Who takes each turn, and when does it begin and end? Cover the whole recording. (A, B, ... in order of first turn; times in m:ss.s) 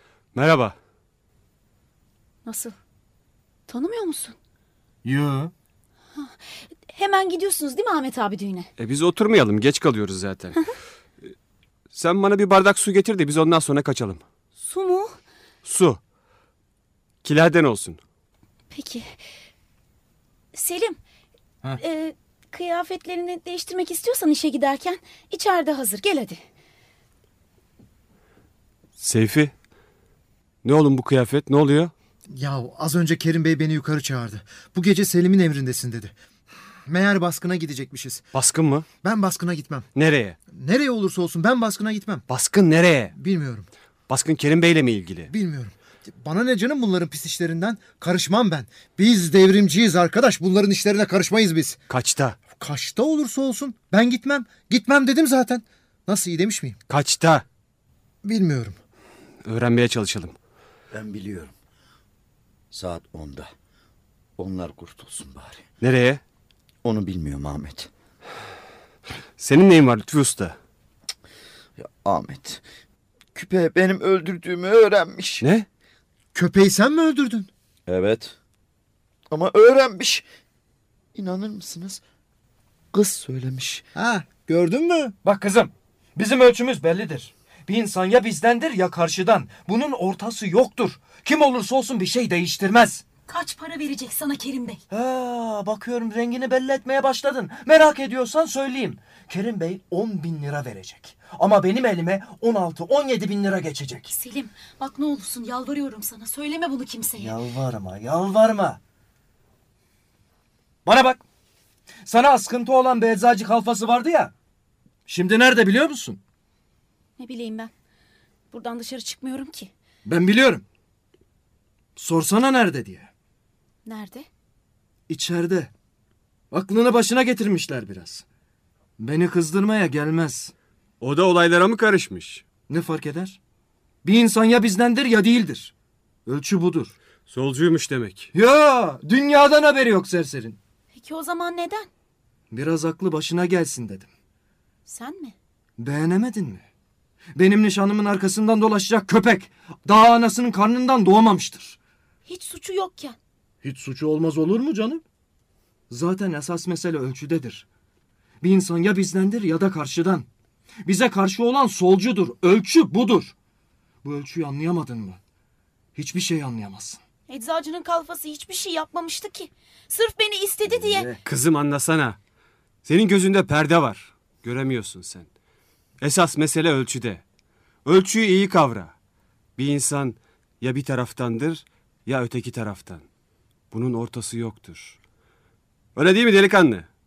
0:00.3-0:00.7 A
0:02.4-0:02.7 B
0:03.7-0:04.3 B
0:05.0-0:05.5 C
0:06.9-0:08.7 B
0:08.8-0:10.6 A
0:11.9-0:14.2 A
0:14.6-0:15.2 B
0:15.6-0:16.0 A
0:17.2-0:18.0 A
0:18.7-0:19.1 B
0:20.5-0:21.0 B
0:21.9-0:26.4 B
0:29.0-0:29.5 A
0:30.6-0:31.9 A
0:32.3-0:36.1 D
0:36.9-0:38.2 D
0:38.3-0:38.9 A
0:39.0-0:39.9 D
0:39.9-0:40.4 A
0:40.5-0:42.2 D
0:42.3-0:43.1 A
0:43.1-0:43.7 D
0:44.1-0:45.3 A
0:45.3-0:51.8 D
0:51.9-0:52.4 A
0:52.6-0:56.8 D
0:56.9-0:57.4 A
0:58.2-0:58.8 D
0:59.4-1:00.3 A
1:00.9-1:01.5 E
1:02.7-1:03.5 E
1:04.4-1:05.6 E
1:05.8-1:06.2 A
1:06.8-1:07.9 E
1:09.4-1:10.6 A
1:11.8-1:12.6 E
1:13.3-1:15.4 E
1:15.4-1:15.7 A
1:16.3-1:17.5 D
1:17.9-1:18.4 E
1:19.3-1:20.2 E
1:21.1-1:22.0 E
1:22.9-1:23.8 E
1:23.9-1:25.1 D
1:25.2-1:33.0 C
1:33.3-1:34.8 F
1:34.9-1:44.1 C
1:44.1-1:46.7 F
1:46.6-1:47.3 B
1:47.1-1:48.8 C
1:50.8-1:51.2 C
1:52.0-1:54.3 C
1:55.0-1:56.2 C
1:57.2-1:57.7 B
1:58.5-1:59.7 B
2:00.0-2:00.6 C
2:02.0-2:03.1 C
2:03.8-2:04.2 B
2:05.1-2:05.7 C
2:06.5-2:08.2 C
2:09.0-2:10.5 C
2:11.0-2:12.4 A
2:12.7-2:13.4 C
2:14.0-2:15.7 C
2:16.2-2:17.0 C
2:17.3-2:18.3 A
2:18.3-2:20.6 C
2:20.9-2:21.9 B
2:22.5-2:24.1 C
2:24.8-2:25.3 B
2:25.8-2:26.6 C
2:27.4-2:31.8 C
2:32.3-2:33.2 B
2:33.6-2:35.0 C
2:35.9-2:37.6 C
2:38.4-2:40.3 C
2:40.8-2:43.3 C
2:44.0-2:45.2 C
2:45.9-2:47.0 C
2:47.3-2:51.0 B
2:50.6-2:51.2 C
2:51.2-2:52.2 A
2:52.8-2:55.3 A
2:56.0-2:57.2 A
2:57.8-2:58.9 A
2:59.6-3:03.0 A
3:03.7-3:05.0 A
3:06.0-3:06.9 A